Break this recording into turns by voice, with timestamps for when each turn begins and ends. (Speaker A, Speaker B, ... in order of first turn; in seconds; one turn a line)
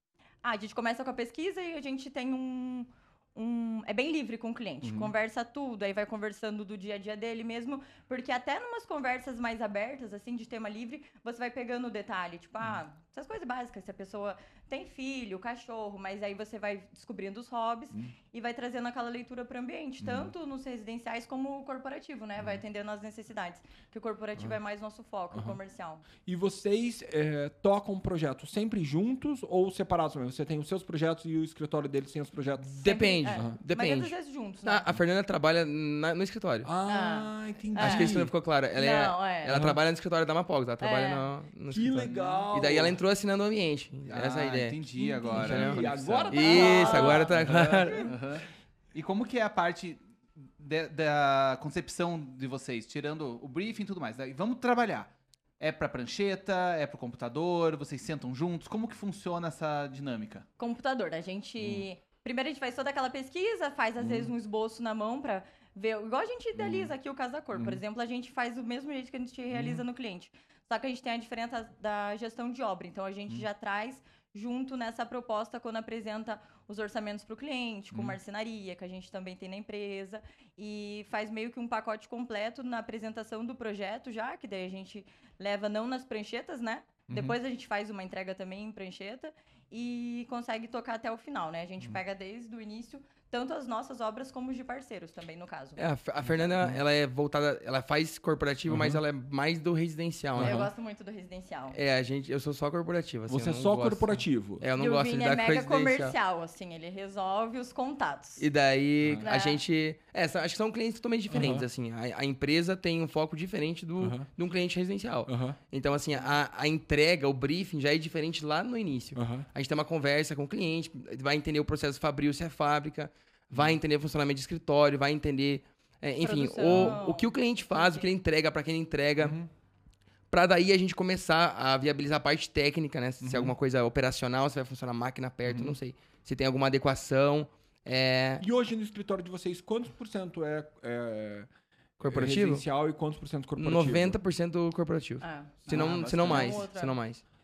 Speaker A: 0.4-26.1
Speaker B: 4.8-5.1
Speaker B: 20.0-20.3
Speaker B: 25.3-25.6
Speaker B: 26.2-33.6
Speaker C: 32.8-36.7
Speaker A: 32.8-34.9
Speaker B: 36.6-38.3
Speaker A: 36.9-38.2
Speaker C: 37.8-48.1
Speaker A: 38.8-39.6
Speaker B: 39.5-39.8
Speaker A: 40.8-41.3
Speaker B: 41.7-43.0
Speaker D: 42.0-42.5
Speaker D: 44.1-46.7
Speaker B: 45.2-48.1
Speaker A: 46.3-48.1
Speaker D: 47.9-60.5
Speaker A: 60.6-95.8
Speaker B: 64.0-64.3
Speaker B: 66.6-66.9
Speaker B: 69.5-69.8
Speaker B: 87.1-87.4
Speaker C: 95.8-100.7
Speaker B: 96.3-96.8
Speaker B: 98.7-99.0
Speaker B: 100.4-100.7
Speaker A: 100.4-101.8
Speaker C: 101.7-106.2
Speaker B: 103.3-104.6
Speaker A: 104.8-108.5
Speaker C: 108.4-129.4
Speaker B: 109.0-109.3
Speaker A: 109.2-109.6
Speaker B: 111.3-111.7
Speaker B: 114.0-114.3
Speaker B: 115.3-115.6
Speaker B: 119.2-119.5
Speaker A: 126.2-128.1
Speaker B: 126.7-127.0
Speaker B: 129.2-129.5
Speaker C: 130.3-138.5
Speaker B: 133.2-133.6
Speaker B: 135.5-135.8
Speaker B: 138.4-141.5
Speaker C: 142.0-142.7
Speaker B: 142.0-144.2
Speaker C: 143.6-147.2
Speaker A: 145.2-147.0
Speaker D: 145.7-146.6